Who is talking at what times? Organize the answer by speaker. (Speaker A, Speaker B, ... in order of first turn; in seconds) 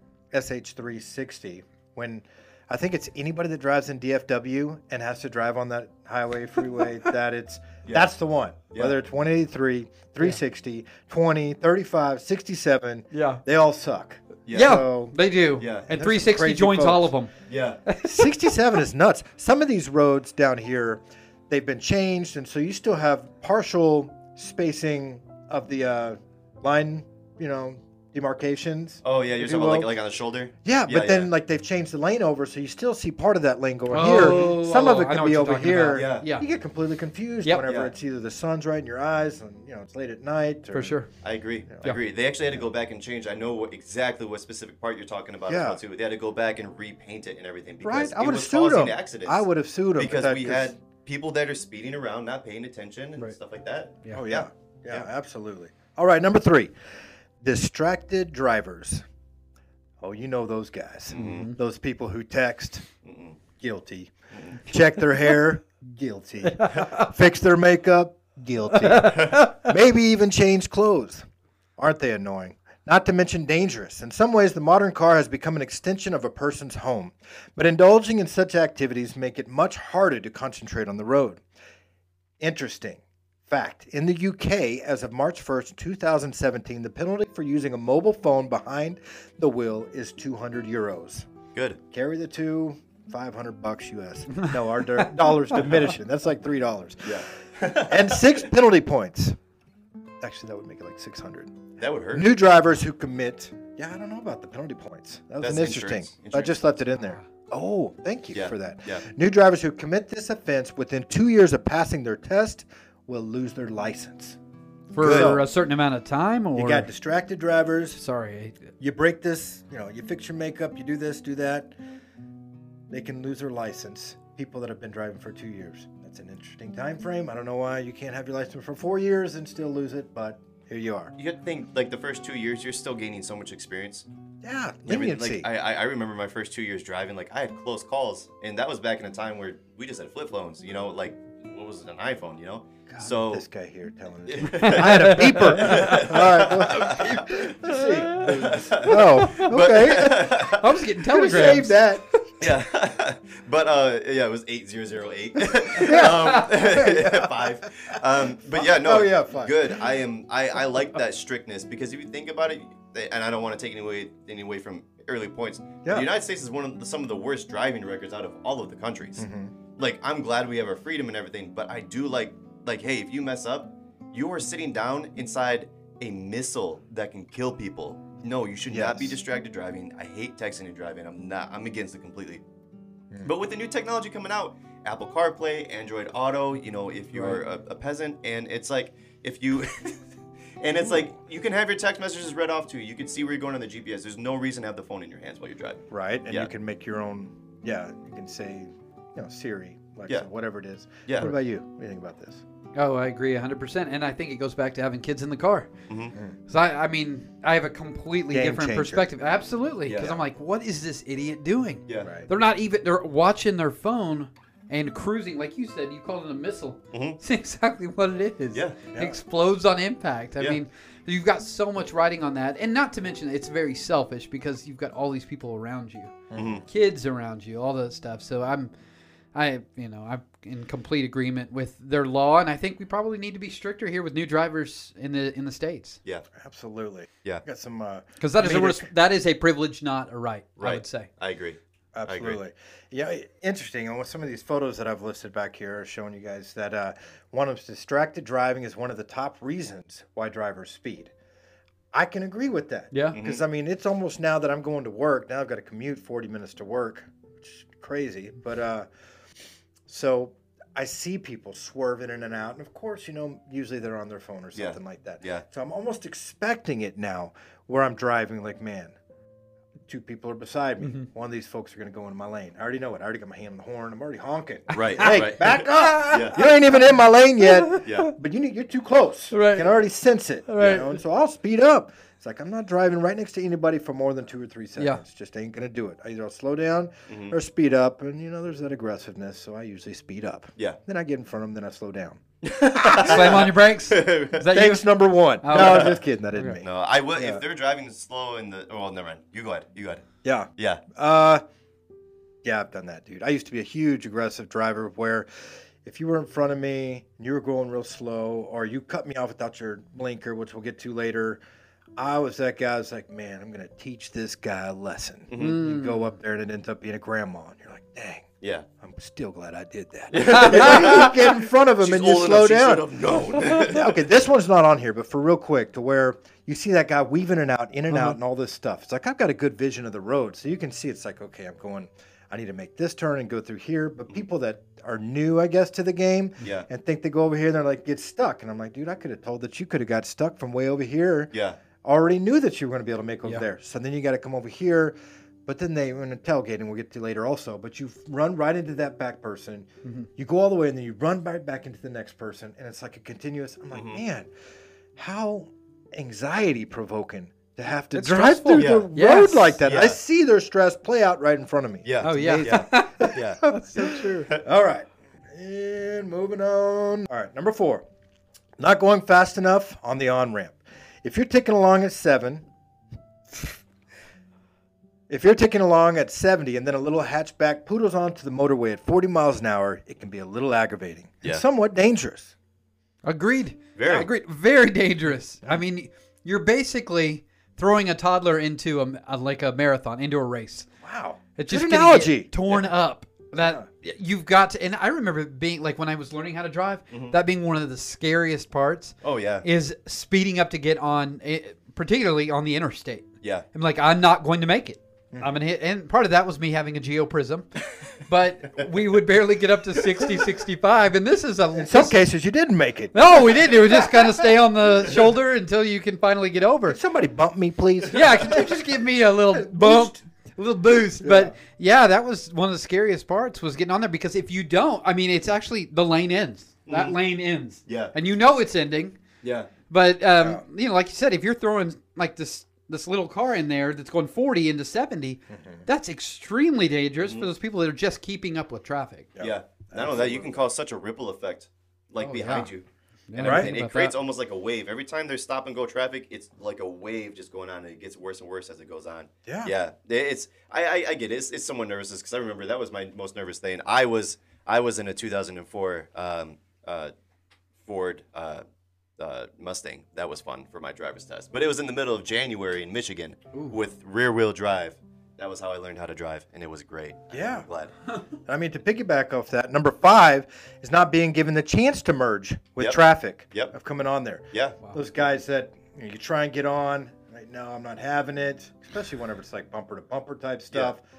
Speaker A: 0.3-15.2, 15.9-17.1, 18.0-29.9, 30.6-41.0, 45.5-45.8, 47.8-50.7, 54.1-56.7, 57.4-59.0, 60.0-62.9, 63.6-71.2, 71.8-81.4, 82.4-91.3, 91.9-97.2, 97.8-99.4, 100.2-101.5, 102.1-114.4, 115.0-115.4, 116.5-118.0, 118.8-121.7, 122.9-131.1, 134.4-135.5, 142.9-152.1, 155.7-157.9, 158.5-159.6, 169.2-169.5, 178.7-179.2, 195.9-202.4, 208.3-209.1, 226.3-226.6, 236.3-238.9, 241.9-251.1, 251.9-258.9, 259.9-268.9, 269.9-292.2, 292.8-293.4, 294.5-297.4, 300.2-301.4, 302.4-311.4, 312.0-318.3, 318.8-341.3, 341.8-354.3, 354.9-367.9, 368.6-372.4, 375.1-382.3, 390.8-392.3, 393.3-393.7, 411.5-414.2, 416.7-418.5, 419.3-420.0, 421.0-421.3, 435.3-435.6, 439.1-440.3, 443.2-443.5, 449.2-449.5, 467.1-467.4, 468.2-480.8
Speaker B: 13.1-13.4, 14.5-17.3, 17.9-18.3, 33.9-36.4, 40.7-41.1, 61.1-61.5, 68.8-69.5, 114.9-116.9, 118.0-118.6, 144.5-146.2, 146.7-149.5, 150.4-151.9, 155.8-156.4, 202.7-205.7, 206.5-226.1, 226.7-228.7, 229.3-236.0, 238.2-241.1, 252.9-253.2, 274.7-275.2, 275.8-276.5, 277.4-278.1, 279.3-279.7, 280.5-281.0, 292.9-296.6, 315.4-316.1, 320.2-321.1, 327.9-328.2, 357.9-359.6, 362.0-364.3, 383.0-390.7, 391.4-412.0, 412.9-416.8, 417.9-429.0, 429.7-439.1, 442.0-442.5, 443.1-443.9, 463.3-463.6
Speaker C: 14.5-14.8, 15.6-15.9, 17.5-17.8, 29.0-31.3, 34.0-34.7, 35.9-36.3, 37.6-37.9, 41.2-55.0, 61.1-61.5, 63.0-63.4, 69.0-69.5, 91.5-91.8, 97.0-98.3, 101.8-102.3, 105.4-106.6, 108.3-109.0, 115.0-115.4, 131.2-134.1, 134.9-143.4, 144.2-147.5, 148.3-150.8, 152.4-169.2, 169.8-182.4, 183.2-190.0, 190.6-196.5, 201.1-201.3, 205.9-206.1, 209.8-210.2, 216.9-217.2, 218.5-218.9, 226.3-226.6, 240.6-242.4, 253.1-253.4, 264.5-265.4, 274.7-276.3, 277.8-278.1, 287.1-287.3, 292.4-294.5, 295.5-296.0, 296.6-300.0, 300.6-300.8, 315.3-315.6, 318.4-318.6, 320.1-324.0, 336.4-336.7, 341.3-341.6, 353.7-354.0, 358.5-358.9, 359.6-360.0, 361.8-363.4, 383.8-384.1, 396.9-397.1, 399.0-399.4, 426.7-427.0, 427.7-427.9, 429.2-429.5, 437.0-437.3, 439.2-456.9, 457.6-458.4, 459.0-467.7, 474.3-474.6